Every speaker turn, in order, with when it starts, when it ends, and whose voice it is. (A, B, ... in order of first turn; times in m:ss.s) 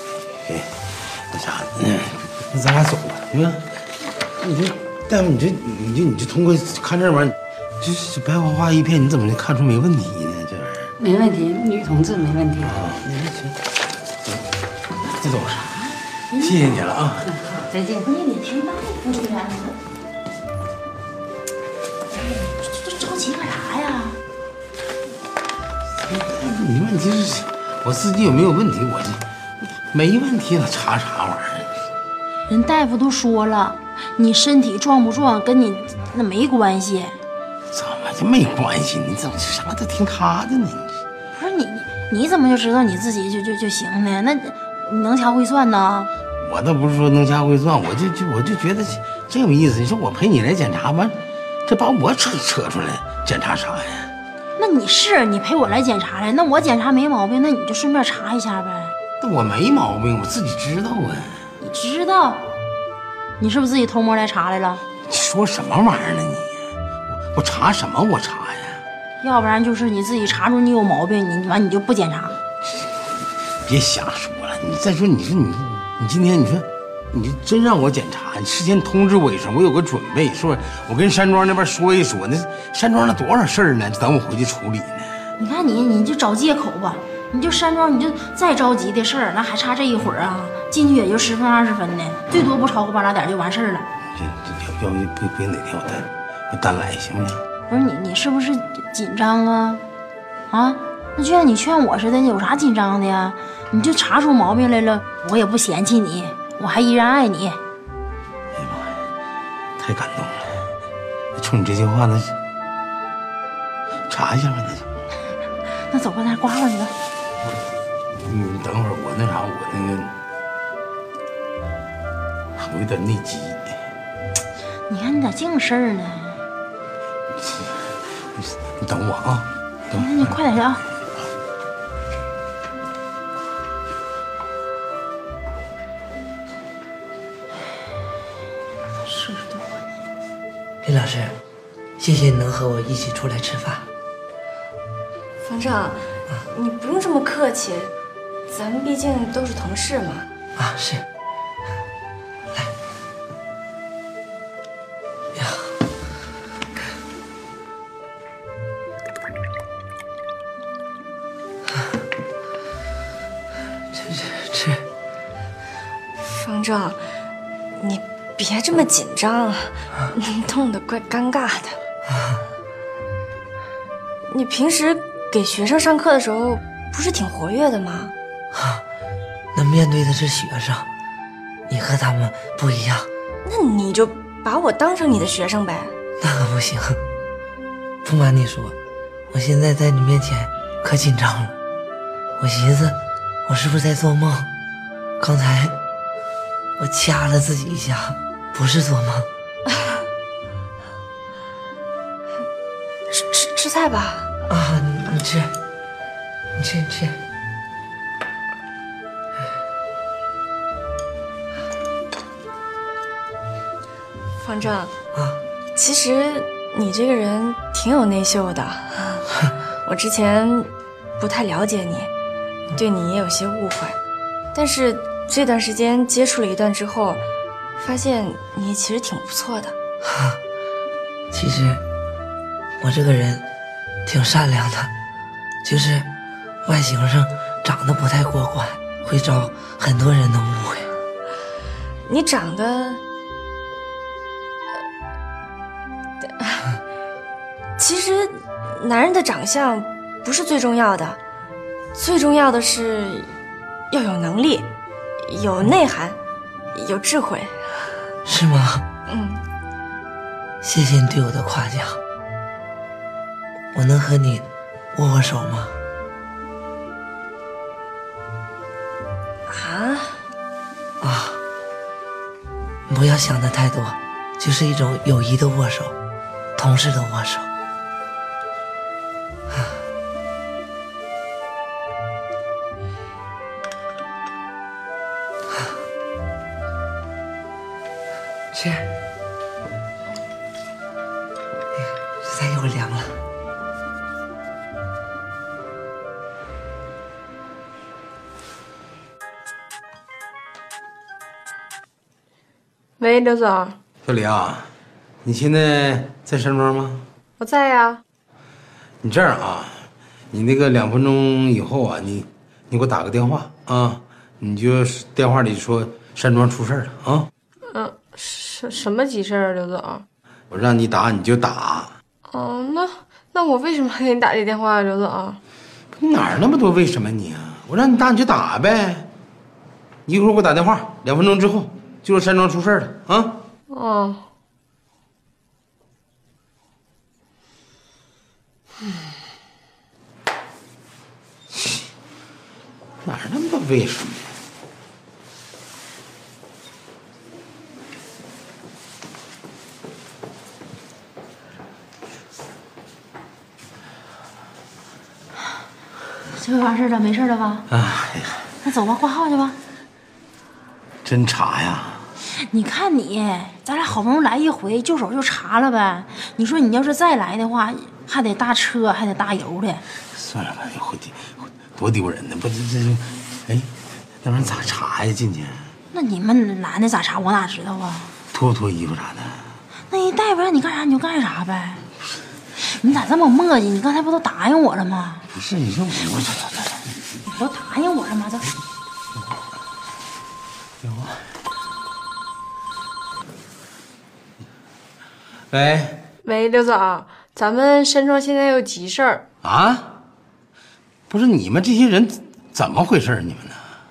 0:00.4-0:03.7 A
0:04.4-0:10.9 A
0:11.0-0:12.8 B
0:12.6-0:13.6 A
0:15.2-0:15.8 A
0:16.3-0:16.8 C
0:16.4-0:17.3 A
0:17.3-0:18.1 B
0:18.0-0:19.8 C
0:22.1-0:24.2 C
0:26.0-0:29.2 A
0:29.9-0:31.8 A
0:32.5-0:37.2 C
0:37.7-0:41.0 A
0:41.3-0:46.1 C
0:46.4-0:54.1 A
0:54.6-0:58.9 C
0:59.2-1:01.4 A
1:01.6-1:02.5 C
1:03.4-1:04.8 C
1:05.0-1:06.6 A
1:07.3-1:08.8 A
1:09.2-1:12.4 C
1:13.6-1:25.1 A
1:25.4-1:33.9 C
1:34.2-1:37.4 A
1:37.7-1:39.8 C
1:40.5-1:47.6 C
1:48.6-1:49.0 A
1:49.8-1:50.7 A
1:51.4-1:52.4 A
1:54.1-1:54.9 A
1:55.9-1:56.9 C
1:58.2-2:00.1 A
2:02.6-2:03.8 A
2:04.9-2:06.4 C
2:07.4-2:10.2 A
2:09.9-2:10.8 C
2:19.0-2:20.0 C
2:20.8-2:21.4 D
2:22.0-2:23.9 D
2:25.4-2:27.9 E
2:28.5-2:30.3 E
2:30.6-2:31.0 D
2:35.3-2:35.8 D
2:43.9-2:44.8 D
2:46.2-2:47.0 E
2:47.8-2:51.8 E
2:52.1-2:52.4 D
2:54.3-2:58.1 E
2:58.5-2:58.8 D
2:59.5-3:00.9 D
3:01.7-3:03.1 D
3:03.4-3:06.0 E
3:06.2-3:07.0 D
3:08.0-3:08.8 D
3:09.3-3:11.6 D
3:12.4-3:14.5 D
3:15.2-3:15.8 D
3:16.8-3:19.3 D
3:23.1-3:24.3 E
3:24.5-3:25.5 D
3:26.6-3:27.2 D
3:34.4-3:34.9 E
3:35.2-3:35.4 D
3:35.8-3:39.3 E
3:39.8-3:42.1 E
3:42.7-3:44.0 E
3:44.5-3:47.2 E
3:47.8-3:49.8 E
3:50.0-3:50.4 D
3:51.3-3:51.8 D
3:52.8-3:53.4 D
3:54.0-3:54.9 D
3:55.6-3:56.1 D
3:56.6-4:00.9 D
4:02.1-4:03.0 E
4:07.8-4:11.2 E
4:12.0-4:13.3 E
4:13.9-4:14.7 E
4:15.2-4:16.2 E
4:16.7-4:17.9 E
4:18.2-4:18.8 D
4:19.1-4:19.4 E
4:20.6-4:22.0 D
4:23.7-4:25.7 D
4:29.5-4:30.2 E
4:31.0-4:31.4 D
4:32.9-4:35.9 D
4:36.6-4:37.5 D
4:39.5-4:39.8 D
4:48.5-4:48.9 D
4:51.8-4:53.2 D
5:03.0-5:03.8 F
5:04.0-5:04.7 A
5:05.2-5:07.0 A
5:07.4-5:08.0 F
5:09.0-5:17.3 A
5:17.7-5:20.0 F
5:20.5-5:21.9 A
5:22.3-5:25.4 F
5:26.0-5:29.1 A
5:30.1-5:33.4 A
5:33.7-5:34.2 F
5:43.0-5:44.3 A
5:56.4-5:57.7 C
5:57.7-5:58.5 A
5:58.6-5:59.6 C
6:01.0-6:02.1 A
6:02.4-6:09.8 C
6:10.1-6:13.7 A
6:14.2-6:15.7 A
6:15.9-6:18.1 C
6:18.3-6:19.5 A
6:19.9-6:21.9 C
6:22.6-6:25.2 C
6:25.3-6:26.8 A
6:27.3-6:28.6 C
6:30.8-6:31.2 A
6:35.5-6:36.0 A
6:36.2-6:39.2 F
6:39.4-6:39.9 A
6:41.1-6:43.6 A